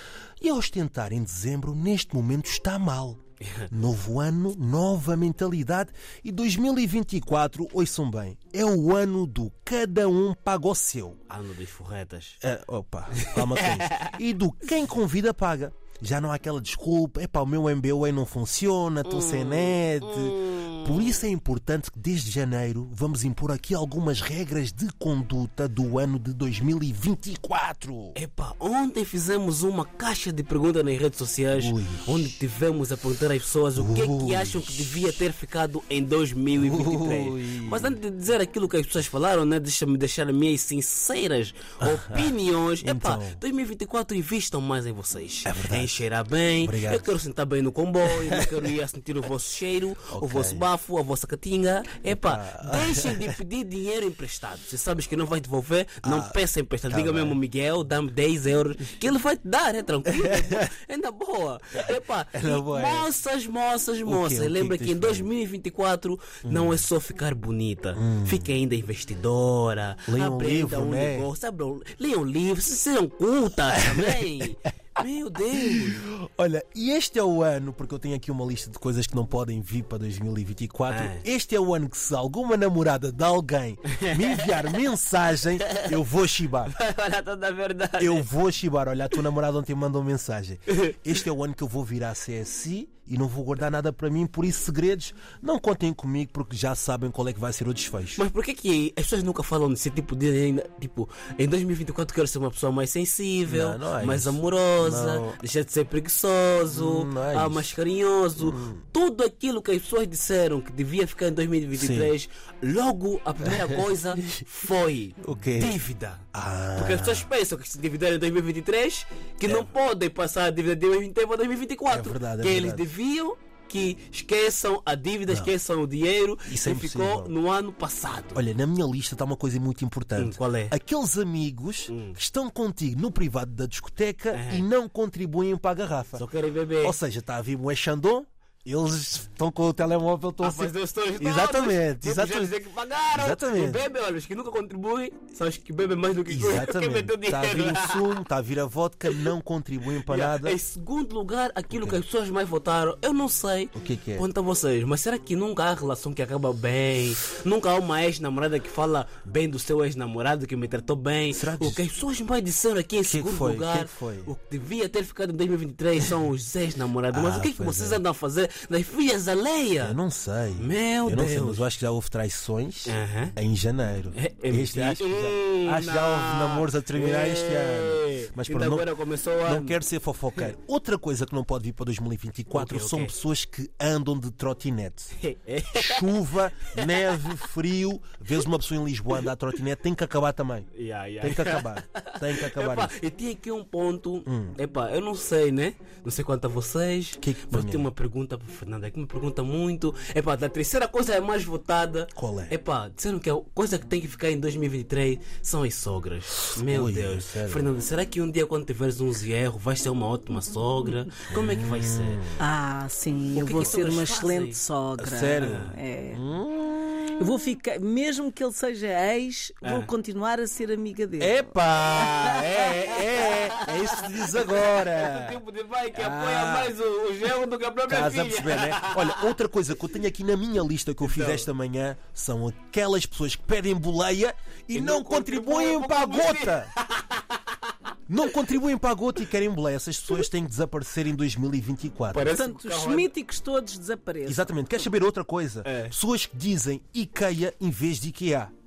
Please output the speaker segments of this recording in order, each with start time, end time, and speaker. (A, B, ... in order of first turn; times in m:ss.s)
0:00.4-0:11.2 A
0:11.3-0:12.4 B
0:12.4-0:28.2 A
0:13.2-0:14.2 B
0:19.0-0:21.2 B
0:28.1-1:16.0 B
0:31.5-0:32.3 A
0:33.8-0:35.0 A
0:36.6-0:38.0 A
0:41.8-0:43.4 A
0:45.4-0:46.0 A
0:46.6-0:47.2 A
0:48.2-0:48.5 A
0:50.1-0:50.6 A
0:52.0-0:53.4 A
0:56.0-0:56.4 A
0:56.9-0:57.4 A
1:00.1-1:00.6 A
1:01.8-1:03.1 A
1:04.0-1:05.3 A
1:06.4-1:06.8 A
1:07.9-1:08.5 A
1:10.1-1:11.3 A
1:13.7-1:14.7 A
1:15.5-1:26.7 A
1:20.9-1:21.2 B
1:23.9-1:24.7 B
1:25.6-1:26.0 B
1:26.6-1:28.3 B
1:28.0-1:38.2 A
1:38.2-2:08.4 B
1:43.4-1:45.4 A
1:46.7-1:47.8 A
1:48.4-1:48.8 A
1:51.7-1:52.1 A
1:53.4-1:54.4 A
1:55.2-1:55.8 A
1:56.3-1:57.3 A
1:59.4-1:59.7 A
2:01.9-2:02.8 A
2:05.3-2:05.5 A
2:06.4-2:07.3 A
2:08.3-2:16.2 A
2:10.2-2:10.7 B
2:11.9-2:12.2 B
2:14.3-2:14.6 B
2:16.2-2:17.0 B
2:16.8-2:22.6 A
2:20.4-2:28.2 B
2:23.1-2:23.9 A
2:26.3-2:30.6 A
2:30.0-2:50.0 B
2:31.7-2:32.0 A
2:33.7-2:34.3 A
2:41.3-2:41.8 A
2:43.0-2:44.3 A
2:47.1-2:48.0 A
2:49.8-2:58.9 A
2:50.6-2:51.7 B
2:52.8-2:53.3 B
2:54.1-2:59.8 B
2:59.4-3:05.1 A
3:02.5-3:03.1 B
3:05.2-3:06.1 B
3:05.7-3:10.7 A
3:06.8-3:07.4 B
3:10.7-3:32.2 B
3:11.2-3:12.9 A
3:14.3-3:14.5 A
3:17.2-3:17.8 A
3:22.1-3:22.6 A
3:26.6-3:27.7 A
3:31.3-3:32.2 A
3:32.4-3:36.2 C
3:33.3-3:34.6 B
3:33.6-3:34.1 A
3:35.0-3:37.2 A
3:35.4-3:35.8 B
3:37.2-3:42.6 C
3:39.6-3:39.9 B
3:41.2-3:45.4 A
3:42.6-3:49.3 B
3:45.9-3:46.8 A
3:47.8-3:56.7 A
3:51.0-3:51.5 B
3:54.7-3:57.4 B
3:58.1-4:02.3 A
4:02.1-4:03.1 B
4:02.3-4:04.5 C
4:04.2-4:08.5 A
4:05.6-4:05.9 B